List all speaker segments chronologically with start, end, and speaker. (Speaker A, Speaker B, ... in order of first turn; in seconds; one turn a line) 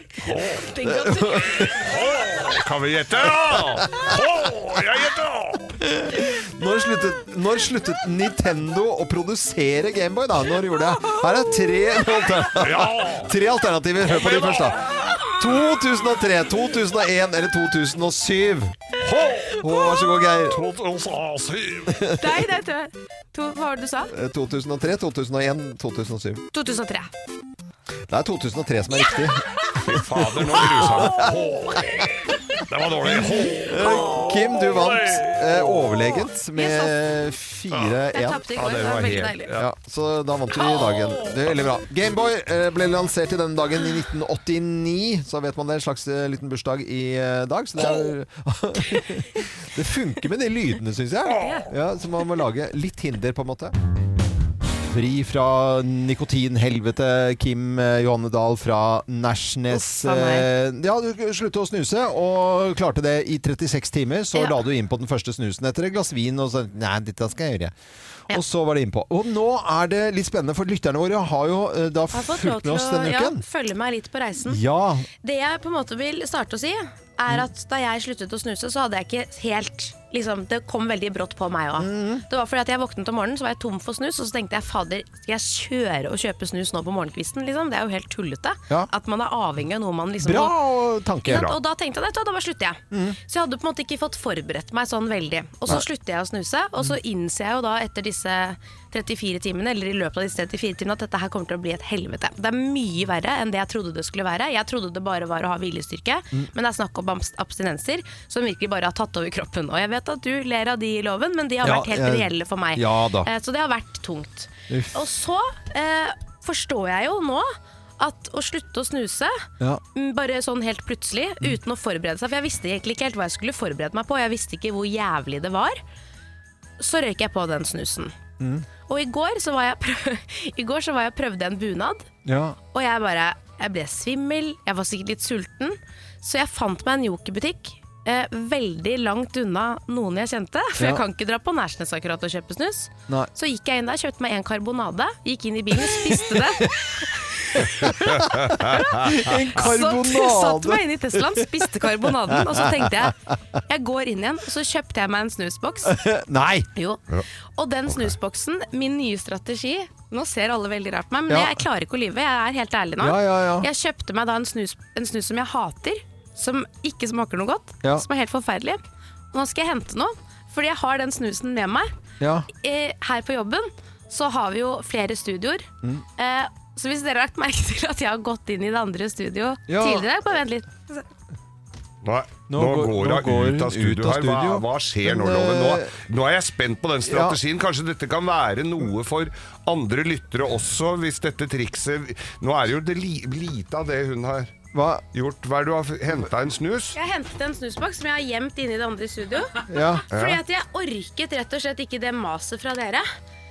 Speaker A: 0.2-0.7
Speaker B: 0.5-1.8
Speaker C: 0.8-1.9
Speaker A: 1.6-5.8
Speaker C: 3.5-3.9
Speaker C: 5.8-18.8
Speaker A: 12.5-13.3
Speaker A: 14.0-15.0
Speaker B: 15.0-15.3
Speaker A: 19.0-19.6
Speaker C: 19.6-20.6
Speaker A: 20.5-22.1
Speaker C: 21.9-22.3
Speaker B: 22.2-24.1
Speaker C: 24.1-26.4
Speaker B: 26.5-27.1
Speaker C: 28.1-32.0
Speaker B: 29.0-29.8
Speaker A: 29.8-36.1
Speaker B: 30.6-31.3
Speaker C: 33.2-38.4
Speaker B: 33.8-34.3
Speaker B: 36.5-37.0
Speaker A: 37.7-38.0
Speaker B: 38.1-39.5
Speaker A: 38.5-39.7
Speaker C: 39.5-53.7
Speaker B: 48.9-49.4
Speaker B: 51.4-51.7
Speaker C: 54.8-67.7
Speaker B: 59.7-60.5
Speaker C: 68.3-73.4
Speaker B: 72.1-74.6
Speaker C: 74.4-75.1
Speaker B: 75.2-90.6
Speaker C: 81.8-82.2
Speaker C: 90.2-91.5
Speaker B: 91.2-125.8
Speaker C: 92.9-93.2
Speaker C: 111.6-113.3
Speaker C: 114.7-115.0
Speaker B: 126.8-128.1
Speaker C: 128.4-128.7
Speaker B: 128.9-132.1
Speaker C: 132.2-132.6
Speaker B: 132.7-156.0
Speaker C: 140.8-141.0
Speaker C: 145.9-146.7
Speaker C: 147.6-153.1
Speaker A: 148.2-148.9
Speaker C: 155.8-156.7
Speaker B: 156.7-157.0
Speaker B: 157.6-168.8
Speaker C: 161.3-161.6
Speaker C: 163.0-163.7
Speaker B: 169.3-171.9
Speaker C: 172.2-172.5
Speaker B: 172.5-181.0
Speaker C: 179.7-180.1
Speaker A: 182.0-194.5
Speaker C: 182.5-185.9
Speaker C: 187.0-187.4
Speaker C: 194.7-195.0
Speaker A: 195.1-197.0
Speaker B: 196.9-203.1
Speaker C: 199.7-200.0
Speaker A: 200.1-200.4